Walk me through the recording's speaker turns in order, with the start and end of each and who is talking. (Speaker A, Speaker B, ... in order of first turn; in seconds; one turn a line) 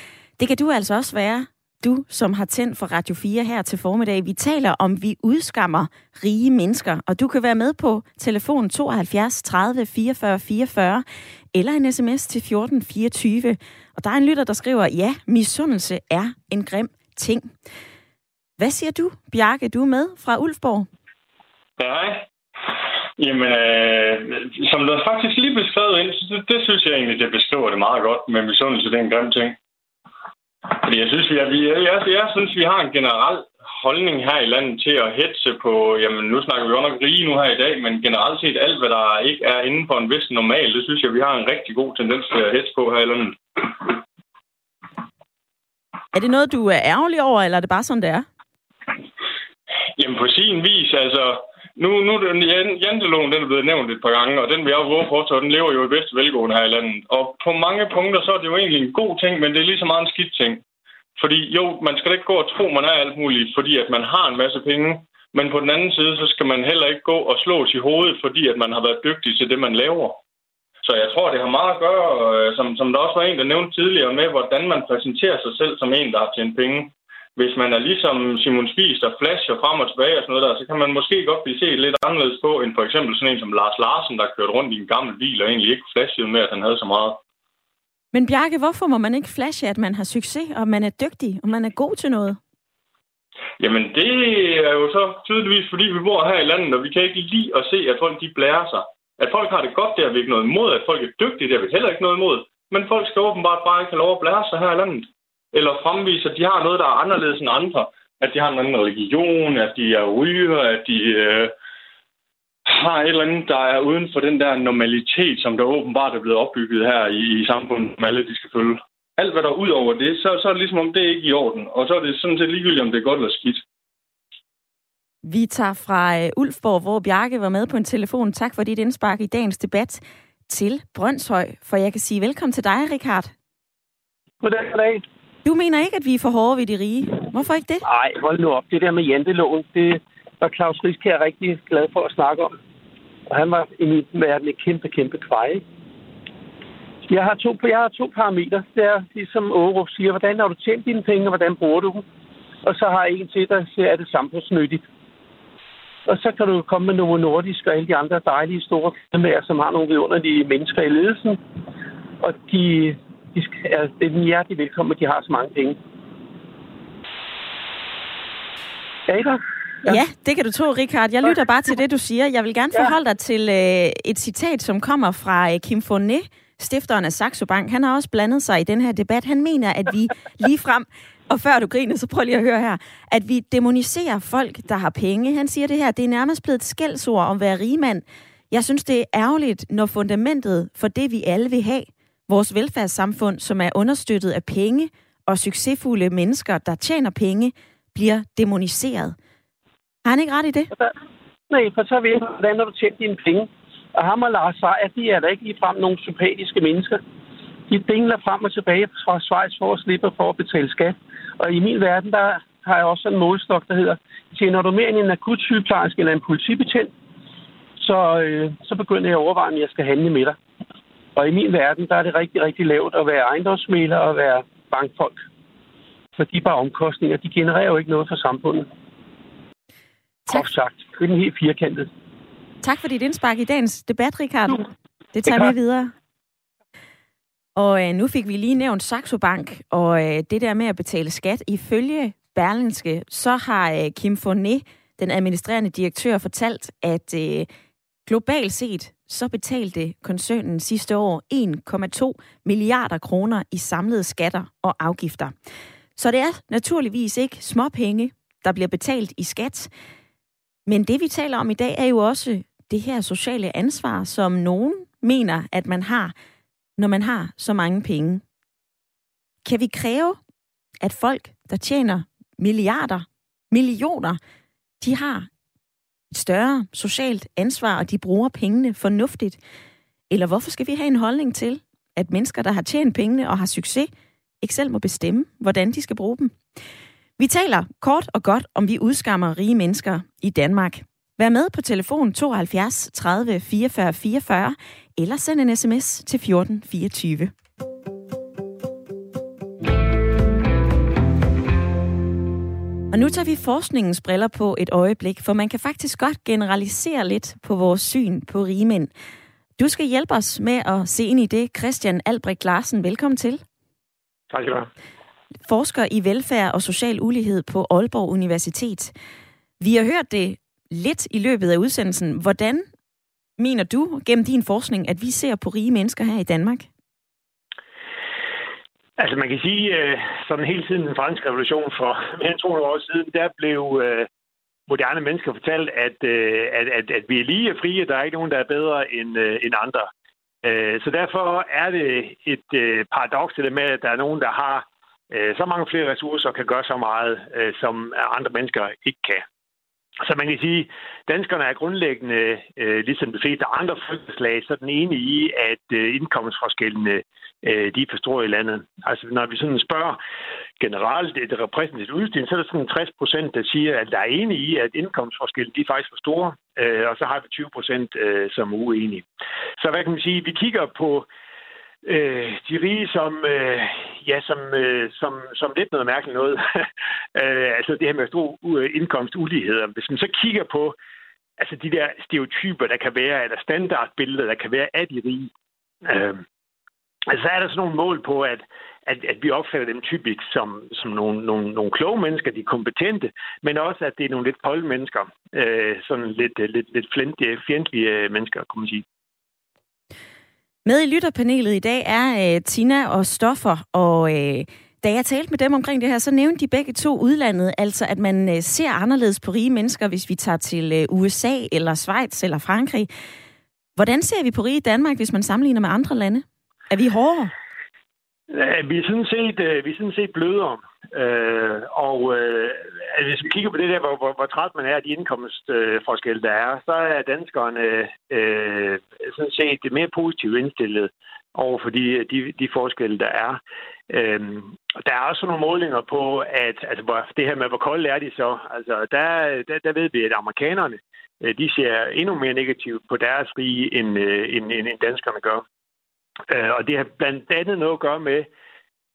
Speaker A: 0.4-17.5
Speaker A: 18.6-20.9
Speaker B: 21.8-22.3
Speaker B: 23.2-29.6
Speaker B: 30.7-44.0
Speaker A: 46.1-48.3
Speaker B: 50.0-60.6
Speaker B: 61.2-70.2
Speaker B: 70.8-87.2
Speaker A: 88.1-92.4
Speaker B: 93.6-111.5
Speaker B: 112.7-123.6
Speaker A: 125.2-133.3
Speaker C: 134.4-135.0
Speaker A: 135.4-137.8
Speaker C: 137.9-142.6
Speaker C: 143.3-145.6
Speaker C: 147.1-152.1
Speaker C: 152.6-154.8
Speaker C: 156.1-161.4
Speaker C: 162.2-165.8
Speaker C: 169.1-170.0
Speaker A: 169.9-199.2
Speaker A: 200.1-200.7
Speaker C: 201.5-207.0
Speaker C: 207.7-216.9
Speaker C: 217.8-220.4
Speaker C: 221.2-225.2
Speaker C: 226.2-228.7
Speaker C: 230.3-231.9
Speaker A: 232.6-234.6
Speaker A: 235.2-235.9
Speaker C: 235.3-235.6
Speaker A: 237.6-247.5
Speaker A: 248.1-255.3
Speaker A: 256.0-259.7
Speaker A: 260.7-266.1
Speaker A: 266.8-268.2
Speaker A: 269.4-270.2
Speaker A: 270.8-274.2
Speaker A: 274.8-275.3
Speaker A: 276.1-279.4
Speaker A: 280.1-283.9
Speaker A: 284.4-286.4
Speaker A: 287.2-297.3
Speaker A: 302.9-308.9
Speaker A: 309.6-313.4
Speaker D: 314.3-314.7
Speaker A: 315.5-318.9
Speaker A: 319.6-322.7
Speaker A: 323.4-326.7
Speaker D: 329.0-334.1
Speaker D: 334.7-339.9
Speaker D: 340.4-349.2
Speaker D: 350.0-360.0
Speaker D: 360.6-369.1
Speaker D: 369.6-371.1
Speaker D: 371.8-380.8
Speaker D: 381.4-385.3
Speaker D: 385.8-386.2
Speaker D: 387.1-398.9
Speaker A: 400.7-412.9
Speaker A: 413.8-417.3
Speaker D: 418.3-445.4
Speaker D: 446.3-448.3